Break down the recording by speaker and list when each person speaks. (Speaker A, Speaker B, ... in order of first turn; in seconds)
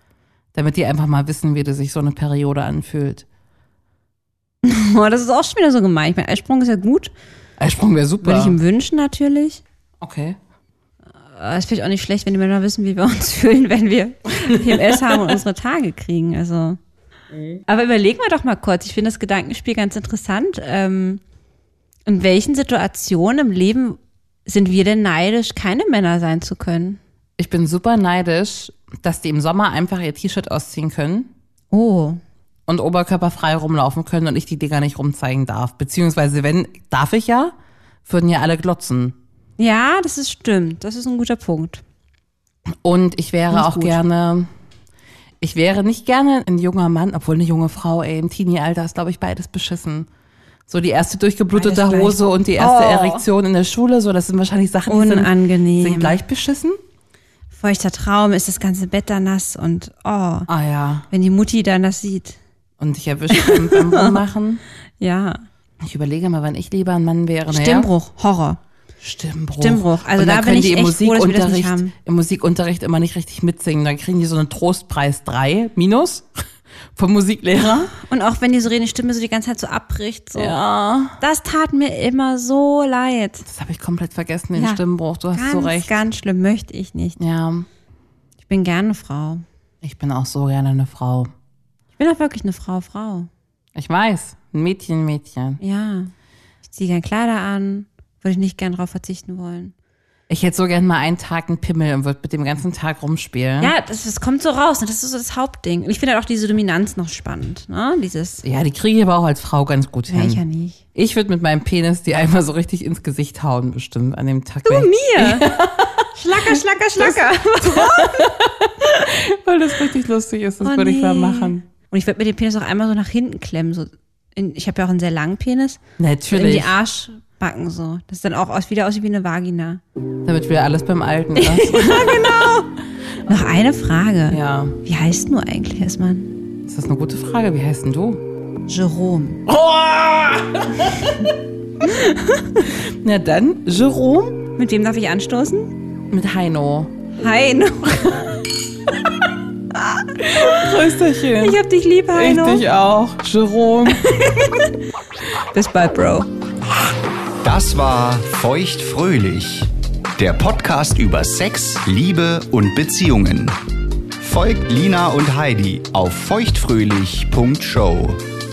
Speaker A: 0.5-3.2, 7.6-8.6, 10.0-10.4, 14.5-15.0, 27.4-31.3, 32.7-37.5, 38.0-39.1, 42.8-44.5, 45.4-50.1, 50.7-56.8, 60.5-61.1, 62.8-64.6, 65.8-67.9, 69.0-76.4, 77.0-77.9, 80.3-81.2, 83.5-85.9, 87.2-87.7, 89.8-91.3, 93.7-95.6, 100.3-103.7, 108.4-110.4, 110.9-121.6, 126.0-126.8, 130.2-132.3, 134.3-134.8, 136.7-138.2, 139.5-141.2, 142.9-144.5, 146.1-146.9, 150.3-151.6, 152.1-154.1
Speaker B: 4.6-7.1, 8.2-9.6, 11.2-16.8, 17.7-21.2, 22.1-27.0, 31.7-32.2, 39.6-41.8, 43.5-44.0, 51.5-53.2, 54.9-56.2, 57.5-60.5, 61.1-62.4, 63.3-64.2, 65.0-65.4, 67.5-68.6, 69.6-71.9, 78.0-80.6, 81.2-83.5, 84.5-84.8, 85.3-87.2, 88.4-89.4, 92.0-93.3, 95.6-96.1, 96.6-99.7, 103.6-108.4, 110.1-110.8, 114.6-115.6, 116.1-119.1, 120.6-129.8, 131.3-132.7, 133.2-136.3, 138.7-139.4, 141.8-142.7, 144.6-145.8, 147.2-148.6, 149.7-152.7, 153.9-154.7, 155.5-156.3
Speaker C: 157.4-163.6, 164.2-168.2